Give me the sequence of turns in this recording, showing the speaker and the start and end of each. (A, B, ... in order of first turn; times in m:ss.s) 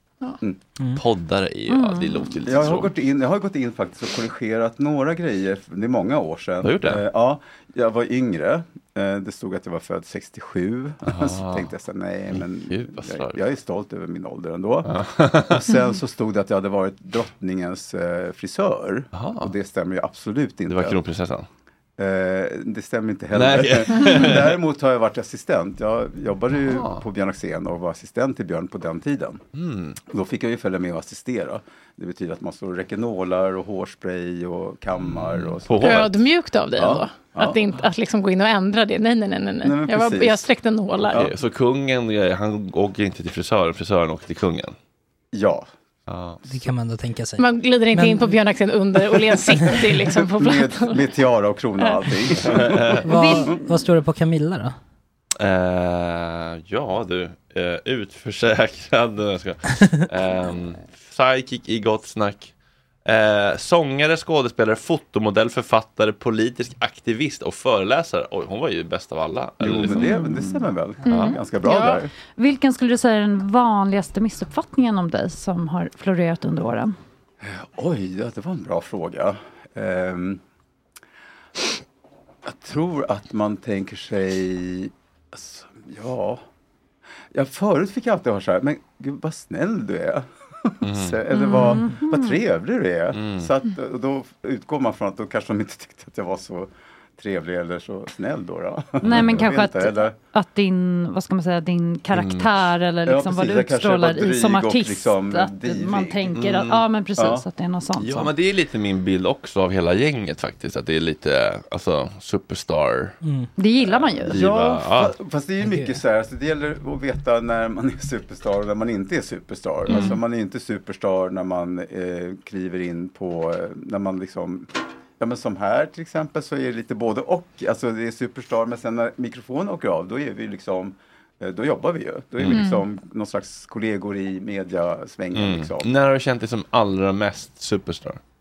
0:01.0-0:02.9 A
0:01.7-0:02.6 B
0:02.4-0:21.0 C
0:06.6-0:07.0 A
0:11.1-0:11.7 A
0:12.3-0:13.4 A
0:14.8-0:15.7 A
0:19.1-0:19.5 A
0:20.7-0:21.5 A
0:22.0-0:29.4 C
0:23.3-0:24.6 A
0:26.7-0:27.1 A
0:29.6-0:30.0 A
0:30.1-0:36.1 C
0:35.0-0:36.2 A
0:35.8-0:41.2 D
0:36.8-0:37.7 C
0:39.6-0:40.5 C
0:41.1-0:44.7 A
0:45.3-0:45.7 C
0:46.1-0:46.4 A
0:46.4-0:48.3 E
0:47.4-0:51.0 D
0:49.8-0:53.0 C
0:52.4-0:53.1 A
0:53.0-0:54.8 E
0:53.1-0:53.5 B
0:55.4-1:02.5 A
1:03.1-1:10.2 A
1:09.6-1:12.1 C
1:09.9-1:10.7 B
1:11.0-1:12.0 D
1:11.1-1:11.4 A
1:11.6-1:16.9 B
1:17.4-1:20.4 C
1:22.4-1:26.4 C
1:27.3-1:40.2 C
1:30.8-1:31.2 A
1:31.3-1:32.4 B
1:33.1-1:33.5 A
1:39.0-1:39.5 A
1:39.0-1:48.3 B
1:42.1-1:42.7 A
1:43.1-1:46.4 C
1:46.3-1:46.8 A
1:47.2-1:47.4 C
1:48.0-1:53.1 A
1:53.2-1:53.5 E
1:53.6-1:54.4 B
1:53.8-1:55.1 A
1:54.3-2:04.7 C
1:55.6-1:56.0 E
1:59.9-2:00.2 A
2:05.2-2:15.9 C
2:12.4-2:12.7 A
2:12.5-2:12.8 D
2:15.3-2:18.2 A